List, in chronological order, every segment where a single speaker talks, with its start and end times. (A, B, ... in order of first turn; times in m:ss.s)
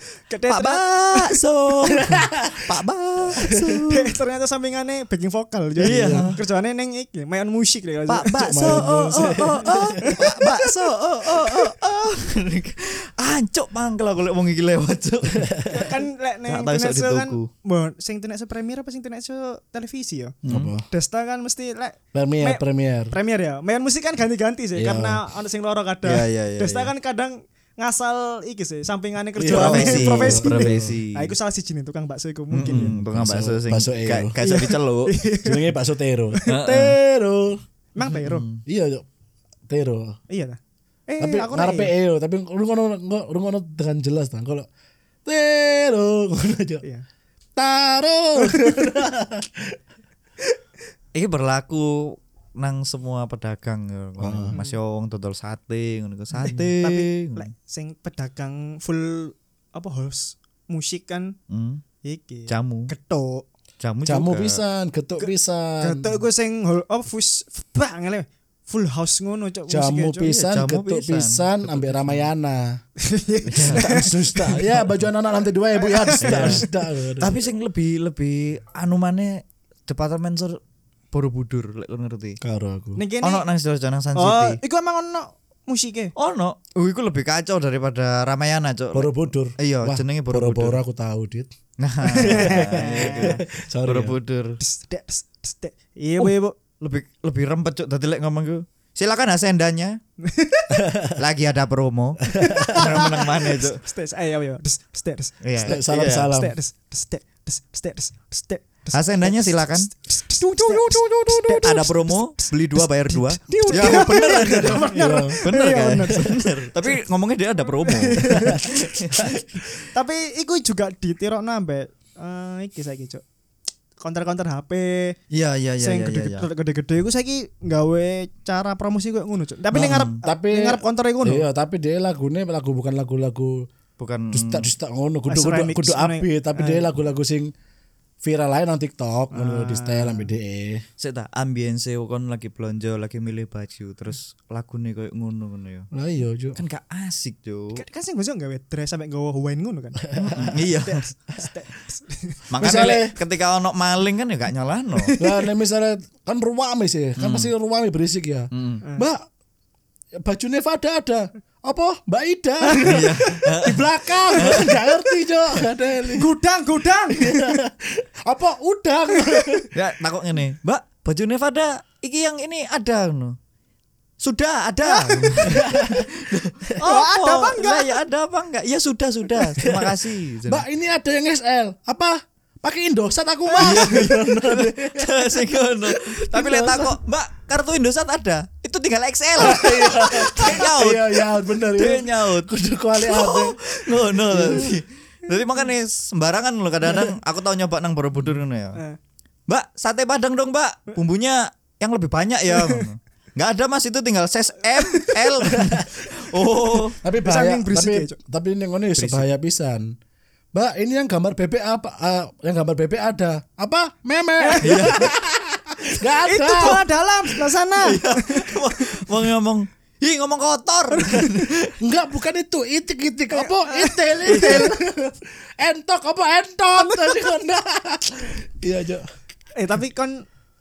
0:00.3-0:01.4 A
0:00.5-0:04.2 B
0:01.9-0:02.7 C
0:03.4-0:03.8 C
0:03.9-0:09.4 A
0:05.8-0:06.4 C
0:05.8-0:06.4 B
0:08.1-0:15.9 B
0:08.4-0:10.4 C
0:10.0-0:10.7 A
0:15.3-0:15.9 C
0:15.7-0:20.4 A
0:16.5-0:17.5 B
0:20.4-0:20.7 B
0:20.5-0:20.9 C
0:20.9-0:32.9 A
0:22.1-0:23.2 C
0:24.8-0:25.2 C
0:26.0-0:26.9 B
0:29.4-0:31.0 C
0:29.5-0:31.4 B
0:32.5-0:35.1 B
0:32.6-0:34.4 C
0:34.4-0:35.8 A
0:35.4-0:37.6 C
0:36.3-0:36.6 A
0:36.5-0:37.0 B
0:38.0-0:38.4 A
0:38.0-0:38.6 B
0:38.7-0:39.1 C
0:39.7-0:40.2 C
0:40.3-0:41.9 A
0:41.2-0:44.7 C
0:45.2-0:46.8 C
0:47.6-0:49.8 C
0:51.1-0:57.5 B
0:54.2-0:54.6 C
0:54.5-0:54.8 A
0:56.4-1:01.4 A
1:01.5-1:01.8 B
1:02.0-1:03.5 A
1:02.5-1:02.9 B
1:03.8-1:04.6 B
1:04.0-1:06.2 C
1:05.2-1:10.3 A
1:09.7-1:12.8 C
1:10.2-1:12.3 B
1:13.0-1:14.6 A
1:13.5-1:13.8 B
1:13.6-1:17.4 C
1:15.8-1:16.8 A
1:16.2-1:16.6 B
1:17.2-1:20.6 B
1:21.1-1:22.4 B
1:22.4-1:23.0 C
1:23.0-1:23.5 A
1:23.2-1:24.6 B
1:24.2-1:26.1 A
1:26.2-1:30.8 B
1:28.9-1:31.5 C
1:31.8-1:34.6 B
1:32.1-1:34.2 C
1:32.1-1:33.4 A
1:34.6-1:36.6 A
1:36.2-1:40.0 B
1:40.2-1:40.8 A
1:40.8-1:41.2 C
1:41.2-1:43.8 B
1:42.3-1:42.8 C
1:42.3-1:56.5 A
1:45.4-1:46.3 B
1:45.6-1:46.6 C
1:48.9-1:49.9 B
1:50.4-1:59.6 B
1:53.5-1:56.3 C
1:57.8-1:58.9 A
1:58.3-1:59.3 C
1:59.6-2:03.2 A
2:04.0-2:05.2 A
2:05.3-2:06.5 B
2:05.8-2:11.5 A
2:09.7-2:13.7 C
2:09.8-2:10.2 B
2:14.0-2:14.7 B
2:14.3-2:17.5 C
2:15.3-2:16.9 A
2:18.2-2:20.8 C
2:19.3-2:20.3 A
2:21.0-2:25.9 B
2:25.9-2:26.6 C
2:26.6-2:27.8 B
2:27.7-2:30.0 A
2:30.1-2:30.6 C
2:30.2-2:31.0 B
2:30.5-2:32.4 A
2:32.5-2:35.1 B
2:32.6-2:33.2 C
2:35.0-2:35.5 A
2:35.2-2:39.2 C
2:37.2-2:37.5 B
2:38.5-2:38.8 B
2:40.2-2:46.3 C
2:42.6-2:44.7 A
2:42.8-2:43.9 B
2:44.4-2:44.7 B
2:46.1-2:47.5 A
2:47.1-2:49.6 C
2:49.2-2:49.7 A
2:49.7-2:53.4 B
2:54.2-3:00.6 B
2:54.8-2:55.6 A
2:55.4-2:56.7 C
2:56.8-2:58.0 A
2:59.6-3:07.0 C
3:03.5-3:03.9 A
3:03.6-3:18.8 B
3:09.4-3:13.6 C
3:14.1-3:14.8 C
3:19.5-3:27.0 B
3:22.5-3:22.9 A
3:24.8-3:25.3 A
3:25.5-3:25.9 C
3:27.0-3:30.0 C
3:27.2-3:28.2 A
3:29.0-3:29.3 B
3:30.5-3:36.8 C
3:34.4-3:35.0 A
3:34.6-3:35.1 B
3:36.2-3:39.0 A
3:37.8-3:41.8 B
3:40.9-3:41.4 A
3:41.8-3:49.0 C
3:43.3-3:44.7 A
3:44.3-3:44.7 B
3:46.8-3:47.2 A
3:49.6-3:50.2 A